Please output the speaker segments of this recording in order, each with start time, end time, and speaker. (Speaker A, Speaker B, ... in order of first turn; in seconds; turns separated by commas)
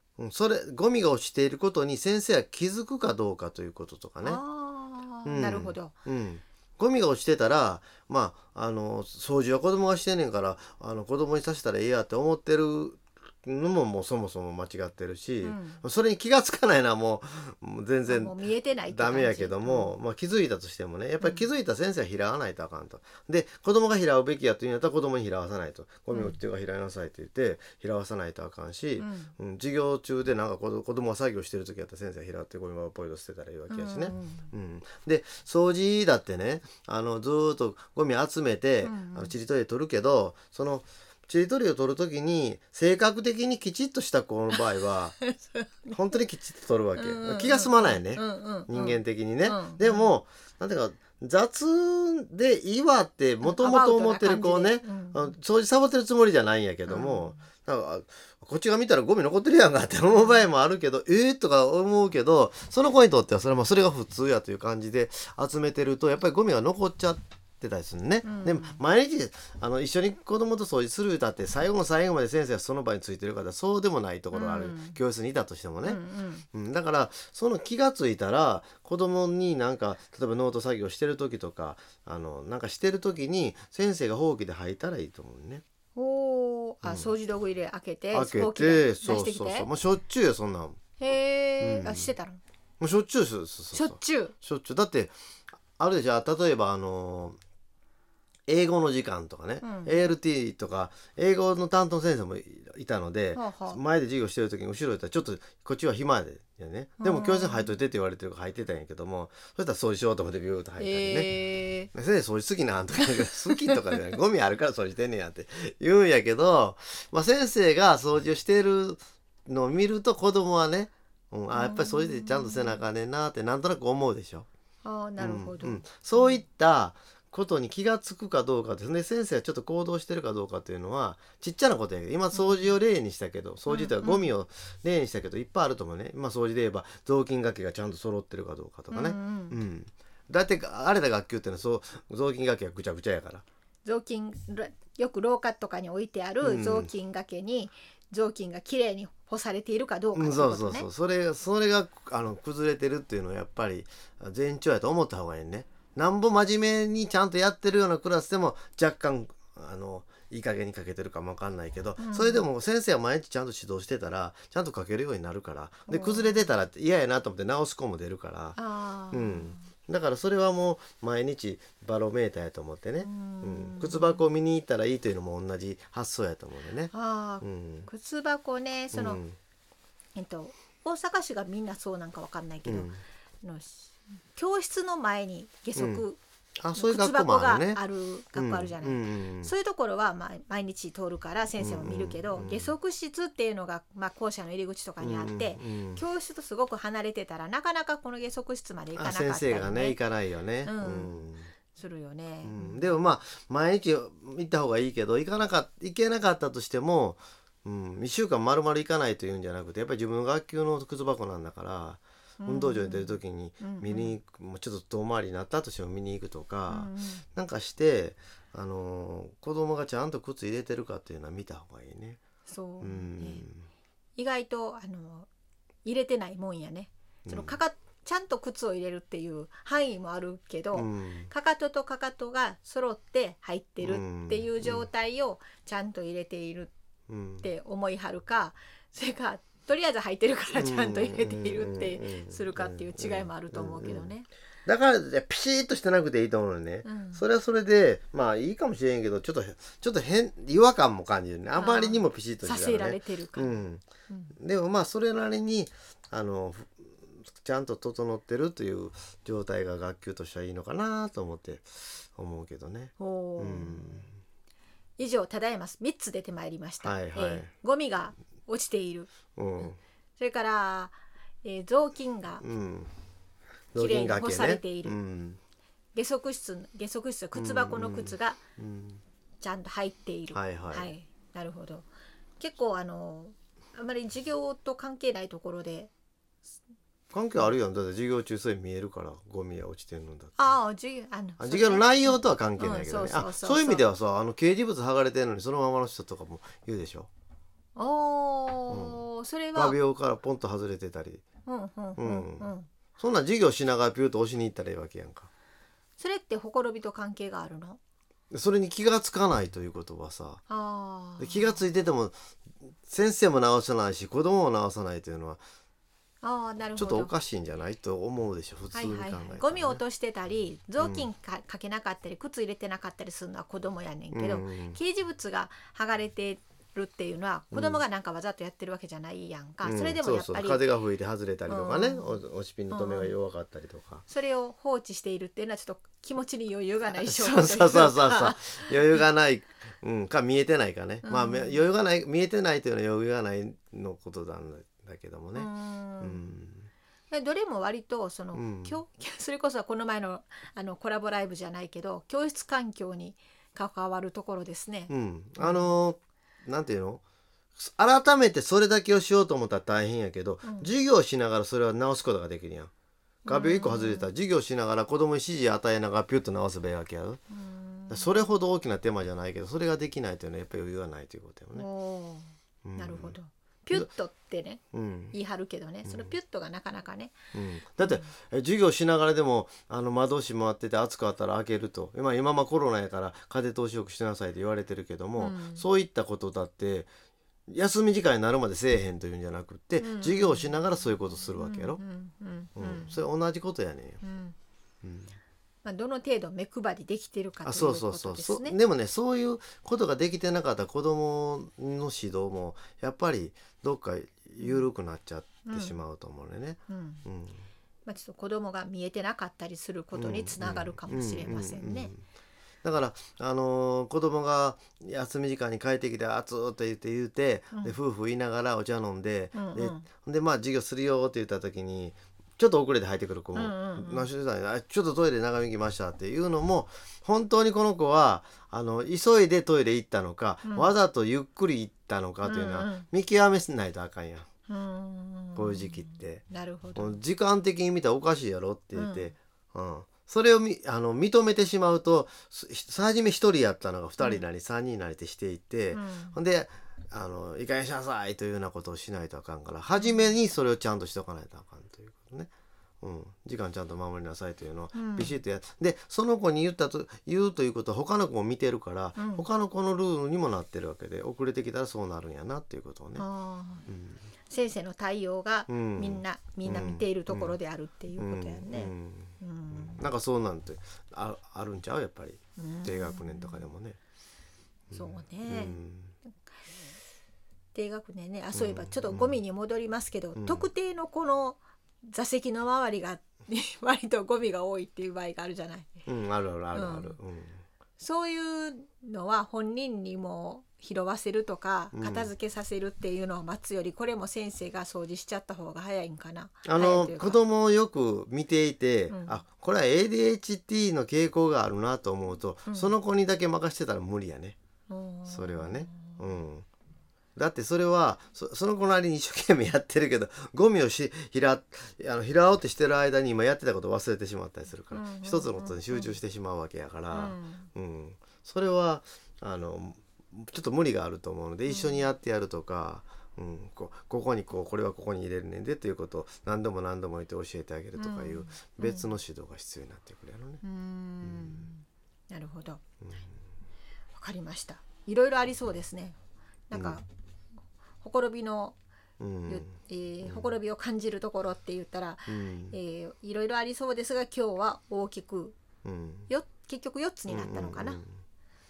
Speaker A: 0.2-4.4, Speaker B: 4.2-5.9, Speaker A: 5.2-45.2, Speaker B: 15.4-15.8, Speaker B: 18.1-19.9, Speaker B: 21.2-21.5, Speaker B: 26.1-26.4, Speaker B: 29.0-29.3, Speaker B: 33.7-34.5, Speaker B: 38.8-39.4, Speaker B: 45.2-46.0, Speaker A: 45.9-76.0, Speaker B: 47.0-50.1, Speaker B: 53.4-55.3, Speaker B: 56.9-57.4, Speaker B: 60.1-60.4, Speaker B: 68.2-68.8, Speaker B: 74.3-75.0, Speaker B: 75.8-76.5, Speaker A: 76.5-85.6, Speaker B: 86.0-89.7, Speaker A: 86.8-87.1, Speaker A: 88.1-90.8, Speaker B: 91.0-92.4, Speaker A: 91.6-92.1, Speaker A: 92.8-95.2, Speaker B: 93.7-94.3, Speaker A: 95.7-97.4, Speaker A: 98.5-111.3, Speaker B: 99.6-100.1, Speaker B: 103.3-103.8, Speaker B: 107.0-107.7, Speaker B: 110.8-111.9, Speaker A: 111.9-124.5, Speaker B: 113.2-113.9, Speaker B: 121.5-122.8, Speaker B: 124.8-126.4, Speaker A: 125.2-143.4, Speaker B: 132.3-132.8, Speaker B: 133.7-134.3, Speaker B: 138.9-139.6, Speaker B: 143.8-150.9, Speaker A: 146.4-146.9, Speaker A: 150.1-168.6, Speaker B: 162.0-162.5, Speaker B: 165.9-166.4, Speaker B: 168.6-169.7, Speaker A: 169.1-177.9, Speaker B: 173.0-174.2, Speaker B: 176.9-179.2, Speaker A: 178.9-179.4, Speaker B: 180.2-182.9, Speaker A: 182.7-183.0, Speaker B: 183.4-186.2, Speaker A: 185.8-186.0, Speaker A: 186.6-187.8, Speaker B: 186.7-200.0, Speaker A: 188.3-189.5, Speaker A: 191.6-192.7, Speaker A: 195.0-196.0, Speaker A: 199.0-201.5, Speaker B: 200.6-201.2, Speaker B: 201.7-202.9, Speaker A: 202.4-222.2, Speaker B: 212.4-214.2, Speaker B: 216.7-217.2, Speaker B: 222.5-223.5, Speaker A: 222.8-223.7, Speaker B: 224.2-225.3, Speaker B: 225.8-236.7, Speaker A: 227.2-227.6, Speaker A: 230.7-231.3, Speaker A: 233.8-234.9, Speaker A: 237.1-237.5, Speaker B: 237.4-244.3, Speaker A: 240.6-244.1, Speaker A: 244.7-253.9, Speaker B: 246.8-247.2, Speaker B: 251.6-253.6, Speaker A: 254.4-264.1, Speaker B: 263.0-264.1, Speaker B: 265.0-269.1, Speaker A: 266.8-267.5, Speaker A: 269.4-269.8, Speaker B: 270.2-272.4, Speaker A: 272.4-272.9, Speaker A: 273.7-275.4, Speaker B: 273.8-275.0, Speaker B: 275.9-278.4, Speaker A: 277.4-279.0, Speaker B: 279.4-281.9, Speaker A: 280.3-280.9, Speaker B: 282.4-285.9, Speaker A: 287.1-290.6, Speaker B: 290.4-293.9, Speaker A: 291.4-297.1, Speaker B: 297.8-299.8, Speaker A: 298.7-299.0, Speaker A: 299.6-301.2, Speaker B: 301.5-302.7, Speaker A: 302.0-305.3, Speaker B: 306.0-307.8, Speaker A: 308.3-310.4, Speaker B: 310.5-311.6, Speaker A: 311.2-312.1, Speaker A: 312.8-315.4, Speaker B: 316.2-317.1, Speaker A: 316.8-319.8, Speaker B: 318.7-330.7, Speaker A: 320.8-321.1, Speaker A: 324.1-324.8, Speaker A: 327.5-327.8, Speaker A: 329.6-334.0, Speaker B: 331.5-333.1, Speaker B: 334.1-339.0, Speaker A: 336.9-345.5, Speaker B: 341.0-341.6, Speaker B: 345.4-346.2, Speaker A: 346.0-346.7, Speaker B: 347.1-355.8, Speaker A: 348.3-348.8, Speaker A: 354.9-357.0, Speaker A: 357.6-362.7, Speaker B: 360.4-360.7, Speaker B: 363.3-364.1, Speaker A: 363.3-367.2, Speaker B: 367.3-368.3, Speaker A: 367.9-371.7, Speaker B: 371.6-374.6, Speaker A: 372.6-373.2, Speaker A: 374.7-375.1, Speaker B: 375.1-377.2, Speaker A: 375.8-376.1, Speaker A: 377.3-386.9, Speaker B: 377.8-378.1, Speaker B: 385.2-385.6, Speaker A: 387.5-391.8, Speaker B: 389.8-393.0, Speaker A: 392.6-394.0, Speaker B: 394.0-394.4, Speaker A: 394.8-395.1, Speaker B: 395.6-398.6, Speaker A: 397.4-407.4, Speaker B: 404.4-404.7, Speaker B: 405.4-405.8, Speaker B: 406.7-407.0, Speaker B: 407.9-411.9, Speaker A: 409.9-412.0, Speaker A: 412.6-434.3, Speaker B: 419.4-419.9, Speaker B: 423.3-424.1, Speaker B: 430.4-430.7, Speaker B: 432.2-432.9, Speaker B: 434.5-437.0, Speaker A: 435.4-436.2, Speaker A: 436.8-452.3, Speaker B: 438.8-439.1, Speaker B: 445.7-446.2, Speaker B: 449.8-450.1, Speaker A: 452.8-463.1, Speaker B: 454.8-455.2, Speaker B: 459.0-459.3, Speaker B: 463.0-463.6, Speaker A: 463.7-464.0, Speaker B: 464.3-469.8, Speaker A: 465.5-467.4, Speaker A: 468.0-473.8, Speaker B: 472.4-473.5, Speaker A: 474.7-475.9, Speaker B: 474.7-475.6, Speaker B: 477.5-485.7, Speaker A: 478.3-479.2, Speaker A: 480.1-480.5, Speaker A: 485.9-487.4, Speaker B: 486.5-486.9, Speaker B: 487.8-497.2, Speaker A: 491.7-492.1, Speaker A: 496.4-504.4, Speaker B: 498.9-499.2, Speaker B: 502.5-502.7, Speaker B: 504.7-506.0, Speaker A: 505.1-506.5, Speaker A: 507.2-530.4, Speaker B: 514.7-516.0, Speaker B: 516.9-517.5, Speaker B: 521.5-521.9, Speaker B: 527.8-528.9, Speaker B: 530.4-532.6, Speaker A: 531.0-531.5, Speaker B: 534.0-536.0, Speaker B: 536.5-536.9, Speaker A: 536.5-536.8, Speaker B: 537.8-538.5, Speaker A: 539.0-540.3, Speaker B: 539.3-545.4, Speaker A: 542.1-542.6, Speaker A: 545.6-546.1, Speaker B: 546.1-547.8, Speaker A: 547.1-547.9